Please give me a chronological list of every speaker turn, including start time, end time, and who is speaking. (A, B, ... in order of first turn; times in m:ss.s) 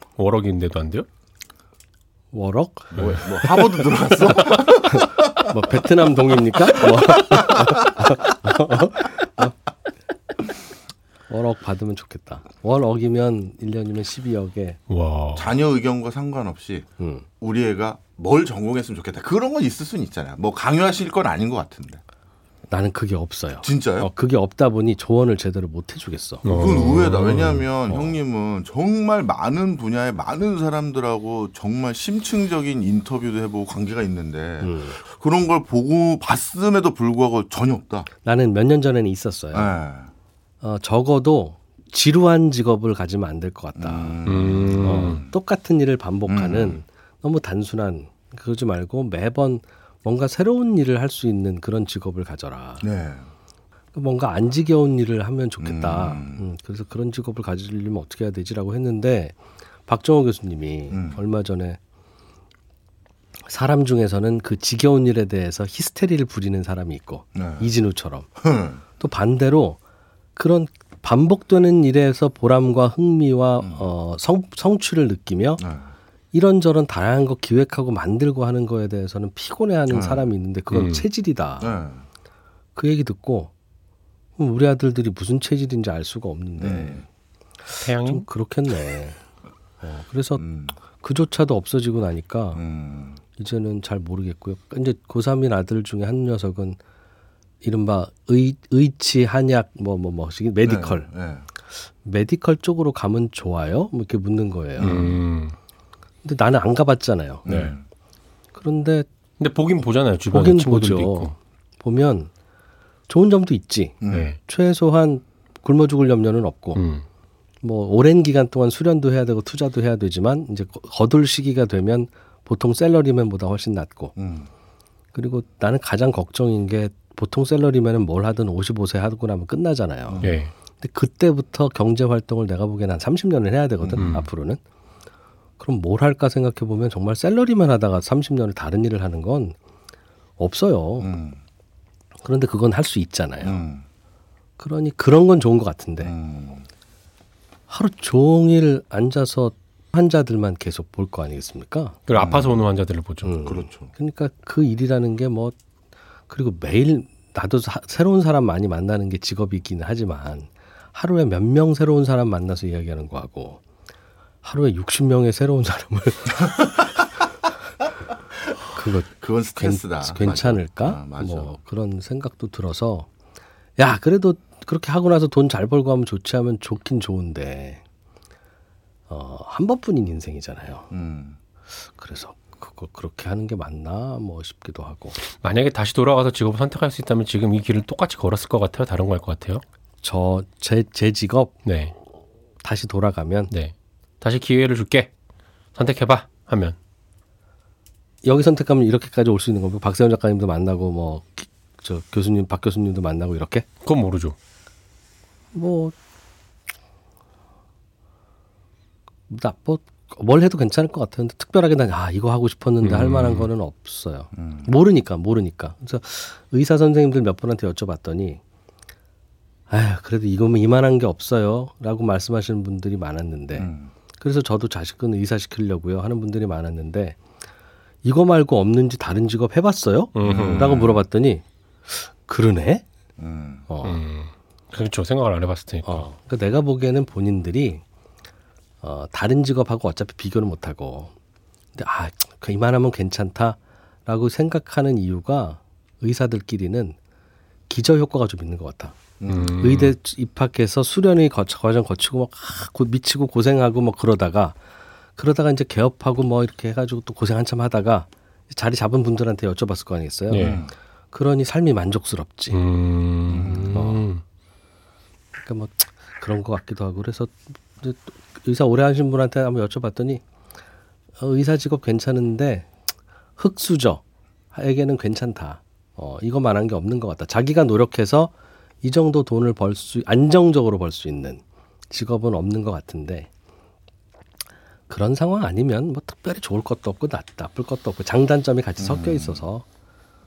0:00.2-0:01.0 A
0:02.3-0:09.5 B
0:02.9-0:05.3 C
0:07.0-0:07.7 C
0:11.3-0:14.8 B
0:14.9-0:15.5 A
0:15.4-0:16.9 C
0:17.0-0:17.2 B
0:17.4-0:22.0 C
0:22.7-0:26.5 B
0:23.6-0:24.1 C
0:26.4-0:28.1 A
0:26.5-0:38.1 C
0:34.6-0:35.0 B
0:38.2-0:39.8 B
0:39.5-0:40.1 C
0:40.6-0:44.2 B
0:43.8-0:45.3 C
0:44.2-0:45.2 A
0:44.8-0:52.8 B
0:46.3-0:46.8 C
0:52.8-0:53.3 C
0:53.9-1:01.8 B
0:55.6-0:56.4 C
1:00.9-1:01.2 C
1:03.4-1:08.3 B
1:07.3-1:07.7 C
1:08.4-1:08.8 C
1:09.0-1:09.8 B
1:10.4-1:15.6 B
1:13.6-1:13.8 C
1:15.6-1:15.9 C
1:16.3-1:21.8 B
1:19.9-1:20.3 C
1:20.7-1:21.0 A
1:21.6-1:22.0 C
1:22.8-1:23.5 B
1:24.4-1:27.1 B
1:26.6-1:27.0 C
1:27.7-1:29.2 B
1:27.8-1:28.3 A
1:29.8-1:32.6 B
1:30.4-1:30.8 C
1:32.5-1:33.2 C
1:33.4-1:36.8 B
1:37.6-1:41.1 B
1:40.6-1:41.4 C
1:42.0-1:45.0 B
1:44.8-1:45.2 C
1:44.8-1:45.5 A
1:46.2-1:47.4 B
1:47.4-1:47.8 C
1:47.4-1:47.7 A
1:48.5-1:49.1 B
1:49.4-1:51.3 A
1:50.3-1:52.3 B
1:53.1-1:56.8 B
1:54.0-1:54.3 C
1:56.7-1:57.0 A
1:57.6-2:04.1 B
2:04.2-2:04.5 C
2:05.1-2:14.6 B
2:10.1-2:10.4 C
2:10.2-2:10.5 A
2:13.8-2:14.2 C
2:13.9-2:14.3 A
2:15.6-2:19.6 B
2:20.4-2:21.1 B
2:21.0-2:21.4 C
2:22.2-2:23.6 B
2:23.4-2:23.8 C
2:24.6-2:26.1 B
2:26.0-2:26.6 C
2:27.7-2:32.0 B
2:32.1-2:33.4 A
2:32.1-2:32.6 C
2:33.2-2:35.5 B
2:33.4-2:33.9 C
2:36.3-2:43.6 B
2:44.4-2:46.9 B
2:48.7-2:53.1 B
2:49.2-2:51.6 C
2:53.8-2:57.8 B
2:59.1-3:00.9 B
3:00.9-3:01.4 C
3:01.7-3:05.2 B
3:05.2-3:09.6 A
3:10.0-3:11.5 B
3:11.6-3:11.9 A
3:12.6-3:13.5 B
3:13.5-3:15.1 A
3:15.7-3:16.8 A
3:18.2-3:23.7 B
3:23.8-3:24.3 A
3:25.5-3:25.9 B
3:29.3-3:38.4 B
3:32.8-3:33.5 A
3:34.3-3:34.8 C
3:39.7-3:47.2 B
3:43.6-3:43.9 C
3:48.0-3:52.8 B
3:50.1-3:50.8 A
3:50.2-3:51.0 C
3:53.2-3:53.7 C
3:53.7-3:54.0 B
3:53.8-3:56.1 A
3:55.8-3:57.8 B
3:58.8-4:01.1 B
4:01.7-4:07.0 B
4:07.7-4:14.6 B
4:09.2-4:09.6 C
4:09.3-4:09.9 A
4:15.2-4:22.6 B
4:20.3-4:20.6 A
4:20.3-4:20.7 C
4:22.5-4:24.2 A
4:23.3-4:23.8 C
4:23.7-4:24.1 B
4:25.4-4:30.2 B
4:31.2-4:32.7 B
4:33.4-4:34.0 B
4:34.5-4:43.3 B
4:44.9-4:49.6 B
4:48.8-4:49.4 C